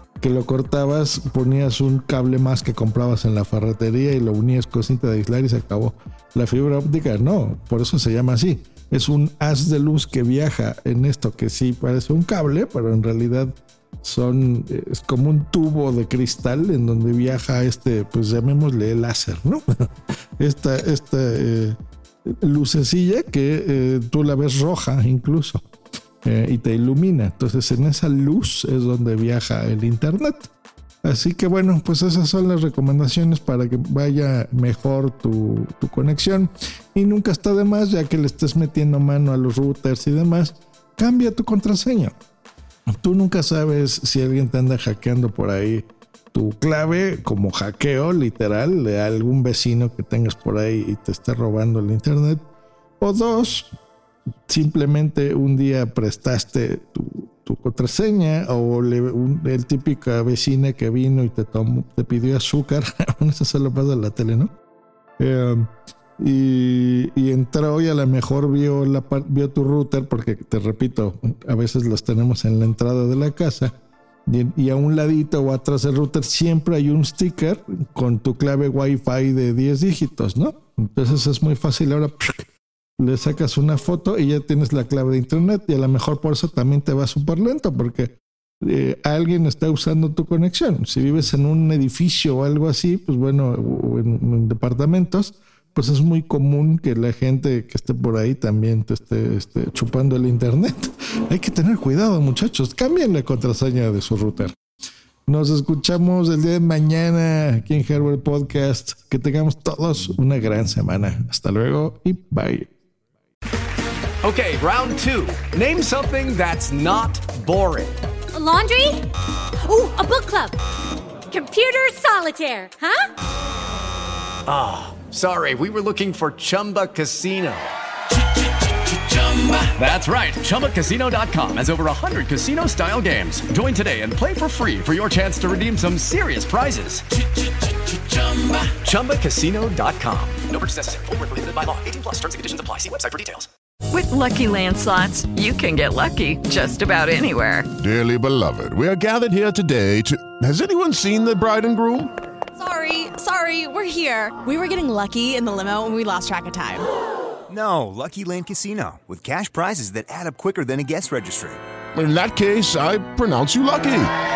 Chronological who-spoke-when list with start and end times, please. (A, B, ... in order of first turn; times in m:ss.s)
0:00.2-0:19.9 A
0:20.4-0:25.6 A
0:26.2-0:30.5 A
0:31.0-0:42.1 A
0:43.0-0:52.4 A
0:53.0-0:53.7 A
0:54.5-1:04.5 A
1:05.2-1:13.7 A
1:14.2-1:22.4 A
1:23.0-1:44.5 A
1:45.3-1:52.7 A
1:54.2-1:57.9 B
1:58.3-1:59.1 C
1:59.6-2:00.6 C
2:01.3-2:03.1 C
2:04.5-2:07.7 B
2:09.1-2:17.0 B
2:17.9-2:23.5 B
2:23.9-2:27.7 D
2:27.8-2:32.1 E
2:32.6-2:36.8 F
2:37.5-2:41.6 G
2:41.9-2:44.1 E